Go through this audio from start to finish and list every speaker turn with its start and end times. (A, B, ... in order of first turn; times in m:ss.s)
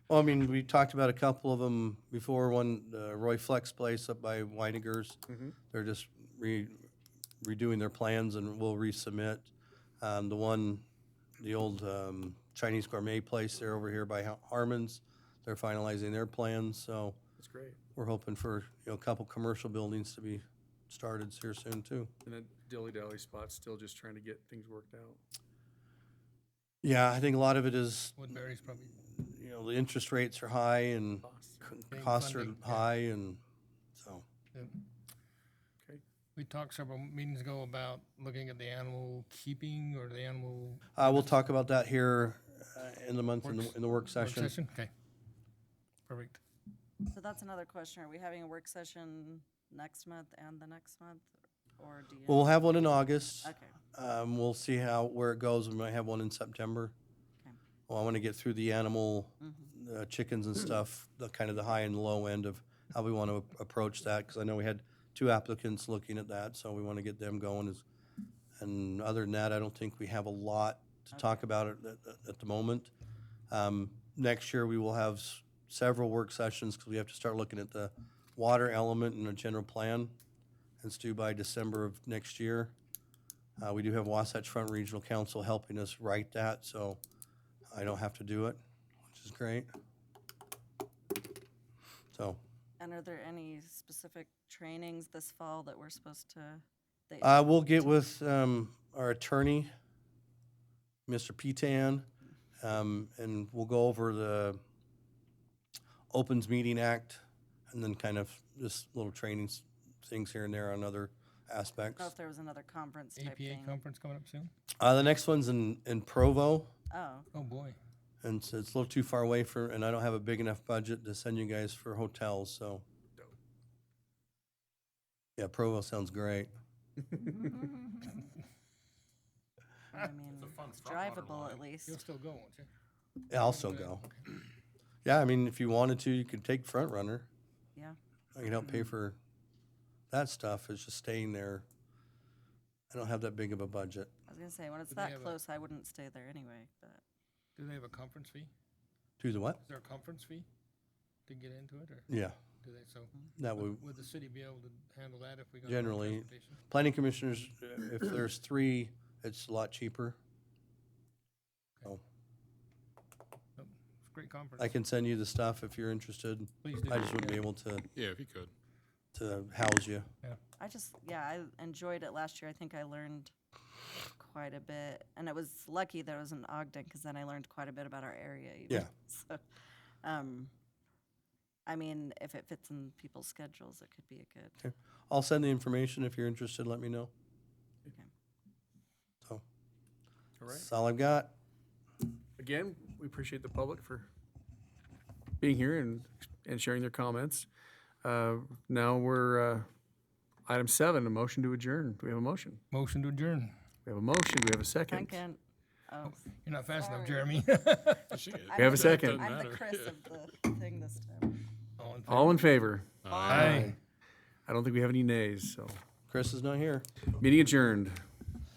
0:00.1-0:05.2 A
0:05.3-0:05.5 B
0:05.7-0:06.8 A
0:07.4-0:10.8 A
0:11.4-0:17.2 A
0:17.4-0:17.8 B
0:18.0-0:22.1 A
0:22.2-0:25.2 B
0:26.8-0:28.4 A
0:28.2-0:29.0 C
0:29.1-0:33.4 A
0:31.2-0:31.7 B
0:31.9-0:32.8 C
0:34.0-0:34.2 A
0:34.5-0:34.8 C
0:36.4-0:41.2 C
0:41.0-0:44.5 A
0:43.4-0:44.9 C
0:46.1-0:46.4 C
0:47.1-0:52.8 D
0:52.2-0:56.9 A
0:53.4-0:53.8 D
0:57.9-1:07.8 A
0:59.4-0:59.7 D
1:08.6-1:12.9 A
1:11.1-1:11.4 D
1:13.5-1:20.1 A
1:20.8-1:22.7 A
1:23.6-1:27.0 A
1:27.7-1:28.6 A
1:29.1-1:29.7 A
1:32.1-1:32.4 A
1:32.8-1:38.0 D
1:37.2-1:39.7 A
1:41.1-1:42.0 A
1:42.6-1:44.6 A
1:46.1-1:52.1 A
1:52.0-1:53.8 D
1:53.2-1:54.5 C
1:54.8-1:56.7 A
1:56.9-1:57.3 D
1:57.3-1:57.8 C
1:58.2-2:02.8 A
2:05.4-2:06.5 A
2:07.1-2:07.5 B
2:09.9-2:12.0 D
2:10.4-2:11.6 E
2:11.8-2:12.7 C
2:13.3-2:14.0 A
2:13.3-2:14.1 C
2:15.0-2:17.3 A
2:18.3-2:19.2 A
2:20.1-2:21.6 A
2:22.9-2:24.1 A
2:24.3-2:27.0 D
2:24.9-2:25.4 C
2:27.6-2:28.5 C
2:29.2-2:29.6 A
2:29.7-2:30.5 C
2:31.3-2:32.1 C
2:32.1-2:32.4 A
2:32.6-2:36.6 C
2:33.4-2:33.8 A
2:35.6-2:40.2 A
2:43.6-2:44.7 C
2:44.6-2:47.9 A
2:46.6-2:47.4 C
2:47.9-2:48.5 E
2:49.1-2:50.1 A
2:50.6-2:53.3 D
2:54.1-2:59.4 D
3:00.0-3:00.5 D
3:01.7-3:04.6 D
3:04.6-3:07.1 A
3:10.4-3:10.7 B
3:10.5-3:11.3 A
3:12.4-3:14.1 B
3:15.4-3:17.5 B
3:18.0-3:19.7 B
3:20.5-3:22.6 B
3:22.7-3:23.5 C
3:23.8-3:25.2 B
3:24.9-3:26.2 D
3:26.0-3:28.3 C
3:26.7-3:27.3 D
3:28.1-3:30.0 E
3:28.4-3:31.4 D
3:28.5-3:29.2 B
3:31.8-3:32.5 C
3:32.1-3:32.9 B
3:33.0-3:33.6 E
3:33.1-3:33.6 D
3:33.2-3:33.8 C
3:34.5-3:35.8 B
3:36.1-3:36.8 A
3:37.2-3:38.0 B